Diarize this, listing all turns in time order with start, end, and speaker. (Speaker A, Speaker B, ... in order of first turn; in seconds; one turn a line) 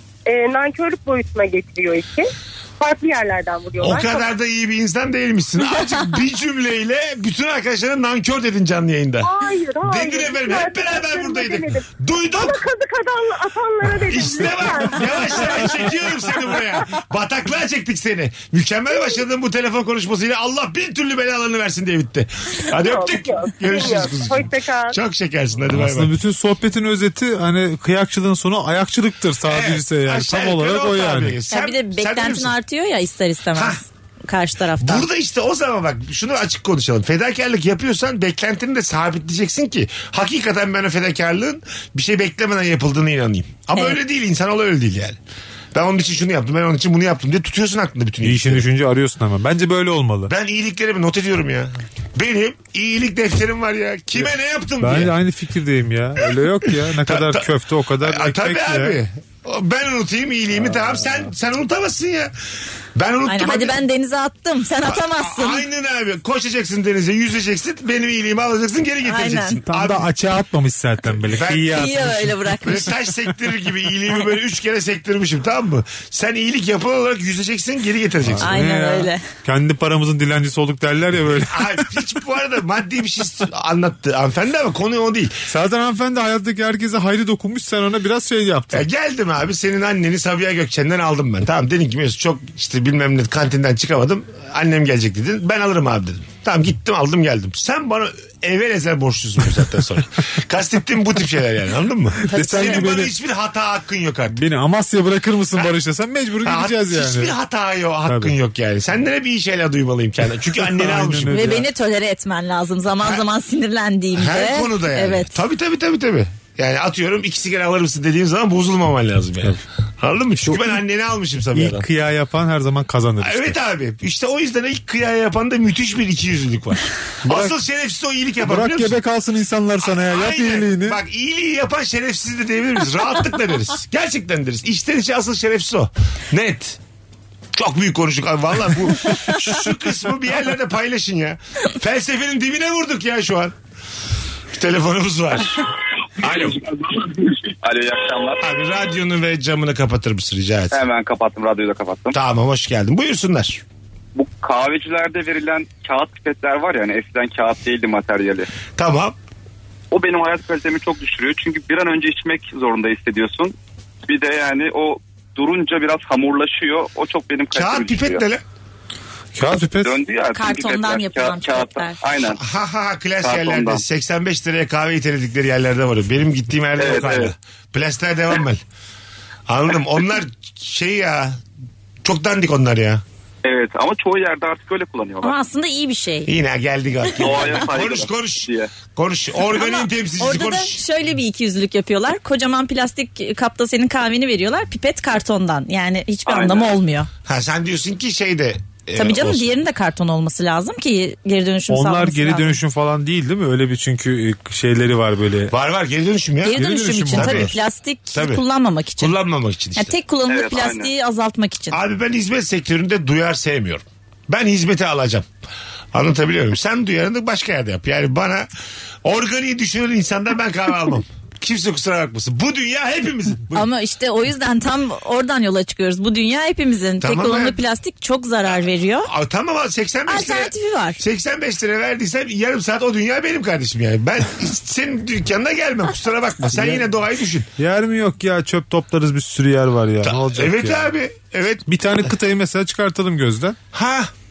Speaker A: 0.3-4.2
Speaker B: 3.8-9.3
Speaker A: 9.2-16.6
Speaker B: 9.8-12.6
Speaker B: 14.1-26.1
Speaker A: 18.9-19.2
Speaker A: 22.8-25.0
Speaker C: 25.7-31.4
Speaker B: 29.5-32.5
Speaker D: 31.5-35.1
Speaker B: 33.5-33.8
Speaker B: 34.8-45.2
Speaker B: 45.7-48.6
Speaker C: 48.2-50.3
Speaker B: 50.3-55.1
Speaker C: 54.8-59.0
Speaker B: 57.1-57.5
Speaker B: 58.0-62.3
Speaker B: 63.0-63.8
Speaker D: 63.3-65.6
Speaker B: 64.8-70.1
Speaker D: 69.0-69.6
Speaker C: 69.7-72.5
Speaker B: 71.3-72.1
Speaker D: 71.7-72.9
Speaker B: 72.6-78.5
Speaker C: 78.3-81.8
Speaker D: 78.4-79.2
Speaker B: 81.3-85.4
Speaker C: 85.5-88.8
Speaker B: 88.7-104.4
Speaker C: 102.2-103.1
Speaker D: 102.3-102.8
Speaker C: 104.3-107.3
Speaker B: 106.4-111.5
Speaker C: 108.1-108.3
Speaker C: 110.6-111.7
Speaker D: 111.3-115.4
Speaker B: 114.1-121.9
Speaker C: 120.4-120.7
Speaker C: 121.5-123.6
Speaker B: 123.2-129.0
Speaker C: 127.2-127.5
Speaker C: 128.4-131.0
Speaker B: 129.8-136.8
Speaker B: 137.5-143.6
Speaker B: 144.5-145.7
Speaker B: 146.2-146.6
Speaker E: 147.6-148.5
Speaker B: 148.4-150.8
Speaker E: 150.7-152.2
Speaker B: 152.1-153.6
Speaker E: 154.2-158.5
Speaker B: 158.8-159.2
Speaker E: 159.9-163.5
Speaker E: 164.1-168.2
Speaker B: 167.5-168.4
Speaker C: 169.4-170.0
Speaker E: 169.8-172.4
Speaker D: 170.3-172.0
Speaker B: 172.4-178.6
Speaker E: 173.2-173.8
Speaker E: 176.8-177.3
Speaker B: 179.5-181.4
Speaker B: 182.0-183.0
Speaker E: 183.4-185.4
Speaker D: 185.2-186.3
Speaker B: 186.3-190.8
Speaker D: 187.1-187.6
Speaker E: 187.2-188.7
Speaker D: 189.5-197.1
Speaker E: 196.3-196.7
Speaker B: 197.3-199.5
Speaker D: 198.9-202.6
Speaker C: 201.7-205.5
Speaker B: 205.5-207.6
Speaker D: 206.4-209.2
Speaker C: 206.5-207.6
Speaker B: 208.1-208.4
Speaker B: 209.0-210.0
Speaker D: 209.8-211.8
Speaker E: 210.3-210.9
Speaker B: 211.7-215.3
Speaker B: 215.9-218.5
Speaker B: 219.0-223.7
Speaker D: 223.5-229.1
Speaker B: 227.0-227.6
Speaker B: 228.4-237.5
Speaker D: 230.1-231.0
Speaker C: 236.5-236.8
Speaker C: 237.6-240.9
Speaker B: 240.0-241.6
Speaker C: 241.7-243.6
Speaker B: 243.7-244.1